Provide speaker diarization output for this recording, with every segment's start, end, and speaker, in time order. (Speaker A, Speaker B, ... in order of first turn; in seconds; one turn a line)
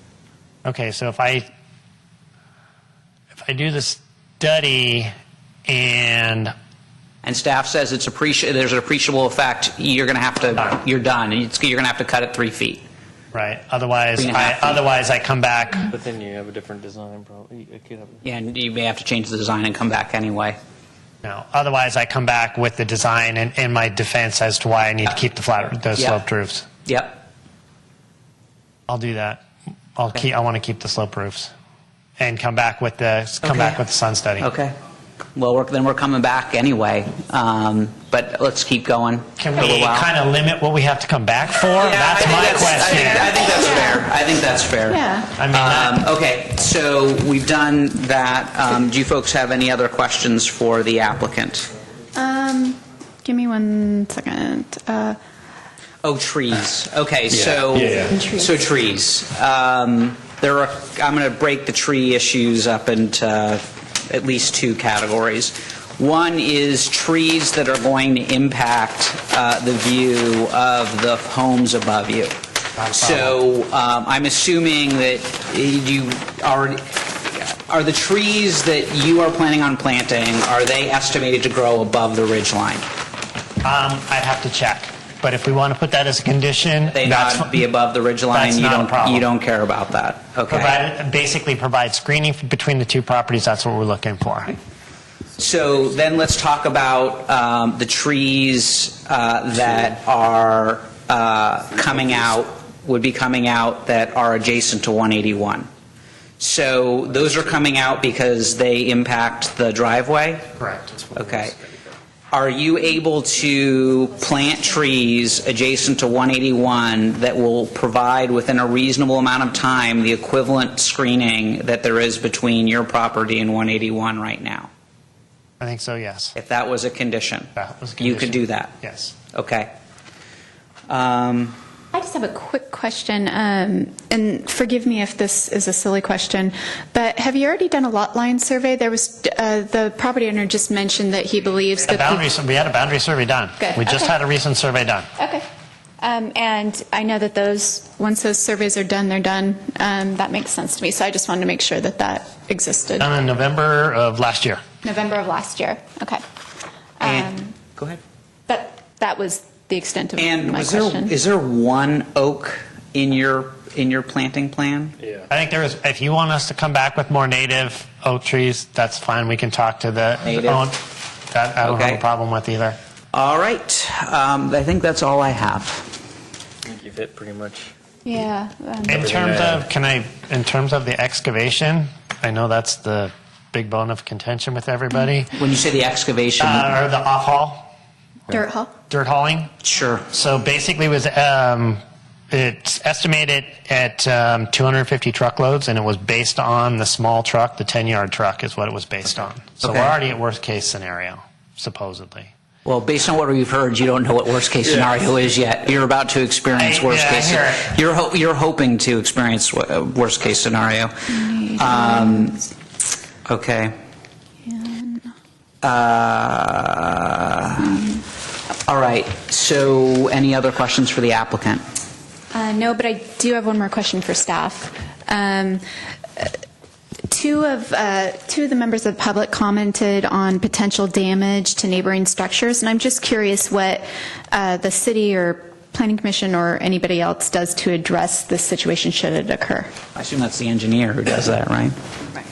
Speaker A: 0.6-1.5
Speaker A: 3.4-5.1
Speaker A: 5.7-6.5
Speaker B: 7.2-12.8
Speaker A: 13.3-15.9
Speaker B: 14.2-14.8
Speaker C: 15.9-18.2
Speaker B: 18.2-20.6
Speaker A: 21.2-26.7
Speaker B: 25.9-26.2
Speaker B: 26.9-27.2
Speaker A: 28.9-29.4
Speaker A: 29.9-31.5
Speaker A: 32.2-34.5
Speaker B: 33.4-33.8
Speaker B: 34.4-34.7
Speaker B: 35.3-40.1
Speaker A: 39.4-43.3
Speaker B: 41.8-51.7
Speaker D: 42.8-44.0
Speaker D: 44.9-45.3
Speaker A: 45.4-46.0
Speaker D: 52.1-55.2
Speaker B: 56.0-72.3
Speaker D: 57.9-58.5
Speaker A: 72.8-73.3
Speaker B: 72.9-82.8
Speaker A: 83.6-87.6
Speaker B: 86.9-90.8
Speaker A: 88.3-89.3
Speaker A: 90.5-94.5
Speaker B: 95.4-105.7
Speaker B: 106.4-110.5
Speaker A: 110.6-110.9
Speaker C: 111.1-111.5
Speaker B: 111.1-111.5
Speaker B: 112.3-124.7
Speaker A: 125.6-126.3
Speaker B: 126.3-128.7
Speaker A: 127.5-129.1
Speaker B: 129.3-129.7
Speaker B: 130.9-131.6
Speaker D: 131.9-142.2
Speaker A: 141.9-145.1
Speaker D: 143.6-144.1
Speaker D: 145.2-145.5
Speaker D: 146.0-153.1
Speaker A: 153.0-154.6
Speaker D: 154.8-156.2
Speaker D: 157.0-157.5
Speaker B: 157.0-158.0
Speaker D: 158.5-161.1
Speaker B: 160.2-164.9
Speaker A: 165.3-172.8
Speaker B: 170.2-170.7
Speaker B: 171.6-172.0
Speaker B: 173.1-175.9
Speaker C: 176.7-177.7
Speaker D: 178.0-179.0
Speaker A: 178.9-185.4
Speaker C: 178.9-179.6
Speaker B: 185.3-186.8
Speaker A: 186.4-187.7
Speaker D: 188.3-188.7
Speaker A: 188.9-189.5
Speaker B: 189.6-190.0
Speaker A: 190.1-191.8
Speaker A: 192.3-202.3
Speaker B: 199.6-200.0
Speaker B: 202.6-212.4
Speaker A: 206.5-207.7
Speaker D: 211.1-212.4
Speaker B: 213.2-213.7
Speaker D: 214.4-215.1
Speaker B: 215.6-217.9
Speaker B: 218.7-221.6
Speaker D: 222.3-225.6
Speaker D: 227.1-239.7
Speaker B: 239.9-241.8